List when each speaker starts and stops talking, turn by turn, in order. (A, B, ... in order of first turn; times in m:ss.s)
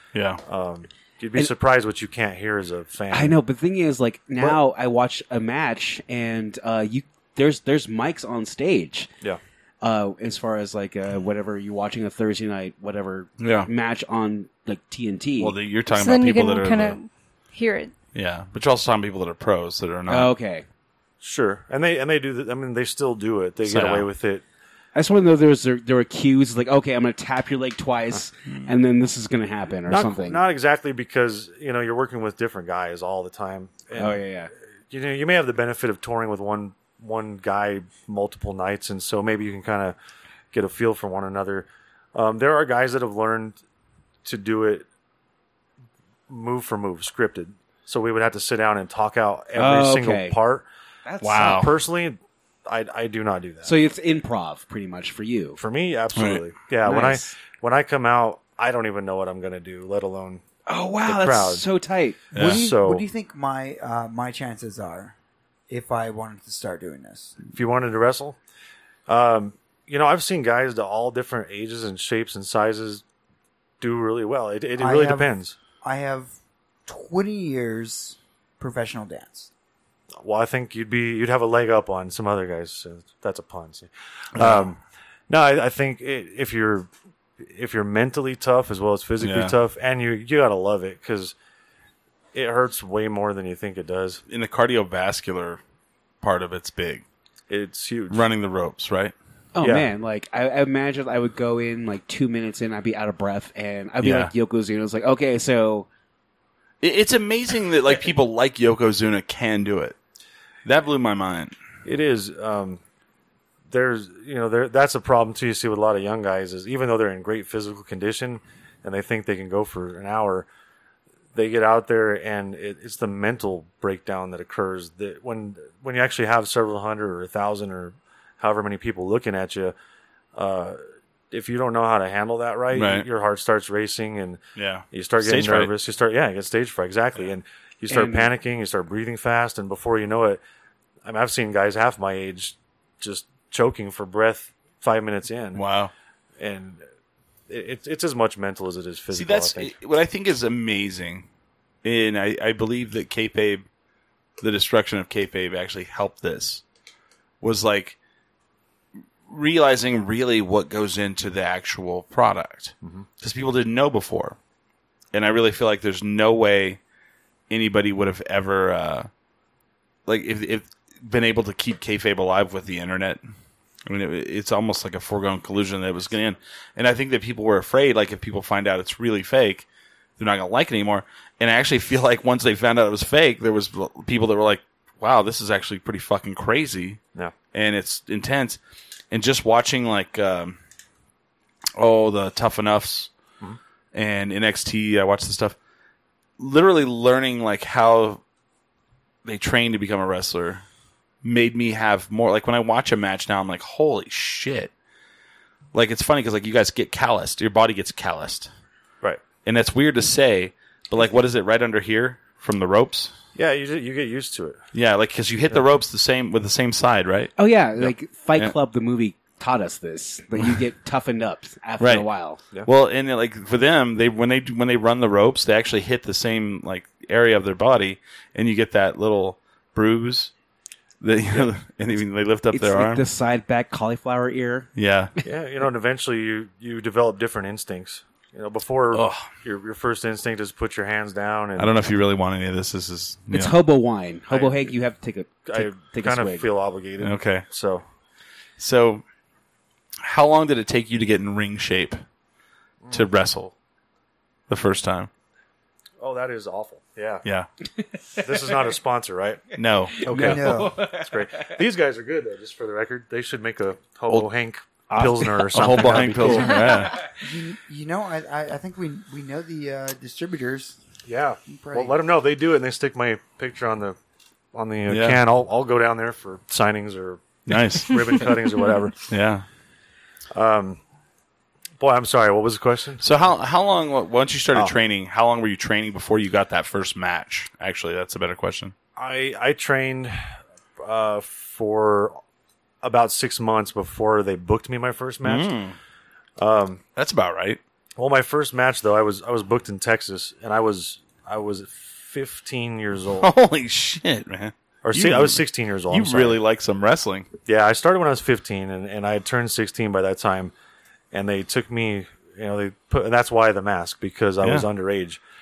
0:00.1-0:00.4 A
0:00.4-0:03.4 B
0:03.1-0:09.1 C
0:09.8-0:15.6 C
0:13.4-0:13.7 A
0:15.4-0:17.0 A
0:15.9-0:17.9 D
0:18.1-0:20.3 A
0:20.1-0:20.6 C
0:21.2-0:24.4 B
0:23.6-0:24.1 A
0:24.9-0:30.4 C
0:29.9-0:34.2 B
0:33.9-0:34.5 C
0:34.9-0:40.0 B
0:40.5-0:43.6 B
0:44.2-0:44.8 B
0:46.3-0:50.6 B
0:49.6-0:50.4 C
0:51.0-0:51.7 C
0:51.2-0:51.7 A
0:51.4-0:53.7 B
0:53.6-0:55.6 C
0:55.6-1:00.4 B
0:56.2-0:56.4 A
0:56.8-0:57.4 C
1:00.7-1:02.3 C
1:01.0-1:01.6 B
1:02.3-1:02.6 A
1:02.3-1:05.1 E
1:02.4-1:03.0 B
1:05.7-1:07.4 E
1:07.4-1:08.4 B
1:09.1-1:13.0 B
1:13.8-1:15.5 B
1:14.8-1:15.3 E
1:15.8-1:16.3 E
1:16.8-1:19.5 E
1:20.2-1:31.3 B
1:24.3-1:24.6 A
1:29.2-1:29.6 A
1:32.3-1:34.2 B
1:34.3-1:35.6 A
1:36.2-1:37.0 A
1:37.5-1:38.2 B
1:38.1-1:39.1 A
1:39.5-1:45.9 C
1:39.6-1:39.9 B
1:44.0-1:44.3 A
1:46.8-1:50.0 A
1:50.6-1:51.5 A
1:51.8-1:52.8 B
1:53.7-2:00.4 B
2:01.3-2:09.7 B
2:10.3-2:14.4 B
2:12.7-2:13.0 A
2:14.6-2:15.7 A
2:14.9-2:20.4 B
2:17.9-2:18.3 C
2:21.0-2:25.6 B
2:25.5-2:25.9 A
2:26.4-2:26.8 B
2:27.5-2:29.7 B
2:29.1-2:31.3 A
2:31.8-2:33.6 A
2:34.4-2:36.6 A
2:37.4-2:38.0 A
2:39.3-2:44.4 A
2:45.1-2:46.8 A
2:47.5-2:49.1 A
2:50.0-2:53.2 A
2:53.8-2:59.6 A
3:00.2-3:07.0 A
3:07.5-3:08.6 A
3:09.1-3:10.6 A
3:11.8-3:13.1 A
3:13.9-3:15.6 A
3:16.4-3:18.2 A
3:19.2-3:20.6 A
3:21.2-3:24.7 A
3:25.7-3:28.5 A
3:29.4-3:33.1 A
3:33.3-3:34.6 B
3:34.7-3:38.5 A
3:37.4-3:42.4 C
3:41.8-3:42.1 A
3:42.6-3:50.3 A
3:51.0-3:53.0 A
3:52.5-3:54.7 C
3:54.8-3:55.1 A
3:55.2-4:01.7 B
3:58.9-3:59.3 A
4:01.6-4:03.5 A
4:03.3-4:06.5 C
4:04.3-4:04.6 B
4:05.5-4:07.8 B
4:07.0-4:07.4 A
4:08.6-4:09.0 A
4:10.0-4:12.0 A
4:12.8-4:13.1 B
4:12.9-4:13.5 A
4:14.5-4:15.1 A
4:16.0-4:17.2 B
4:18.1-4:18.5 C
4:18.1-4:19.4 B
4:19.6-4:20.3 A
4:20.0-4:21.5 C
4:20.0-4:26.8 B
4:20.1-4:20.7 E
4:24.9-4:27.0 A
4:25.6-4:27.0 C
4:27.2-4:30.8 E
4:31.0-4:34.0 B
4:31.5-4:31.9 E
4:34.5-4:39.0 B
4:34.9-4:35.2 A
4:37.5-4:38.3 A
4:39.1-4:39.4 A
4:40.3-4:40.8 B
4:41.8-4:43.0 B
4:43.0-4:48.7 A
4:49.0-4:52.2 B
4:52.8-4:55.5 B
4:55.2-4:55.8 A
4:56.4-4:56.8 B
4:57.0-4:57.6 A
4:58.0-5:03.3 B
5:03.2-5:07.3 A
5:04.8-5:06.4 B
5:07.4-5:10.5 B
5:11.1-5:15.2 B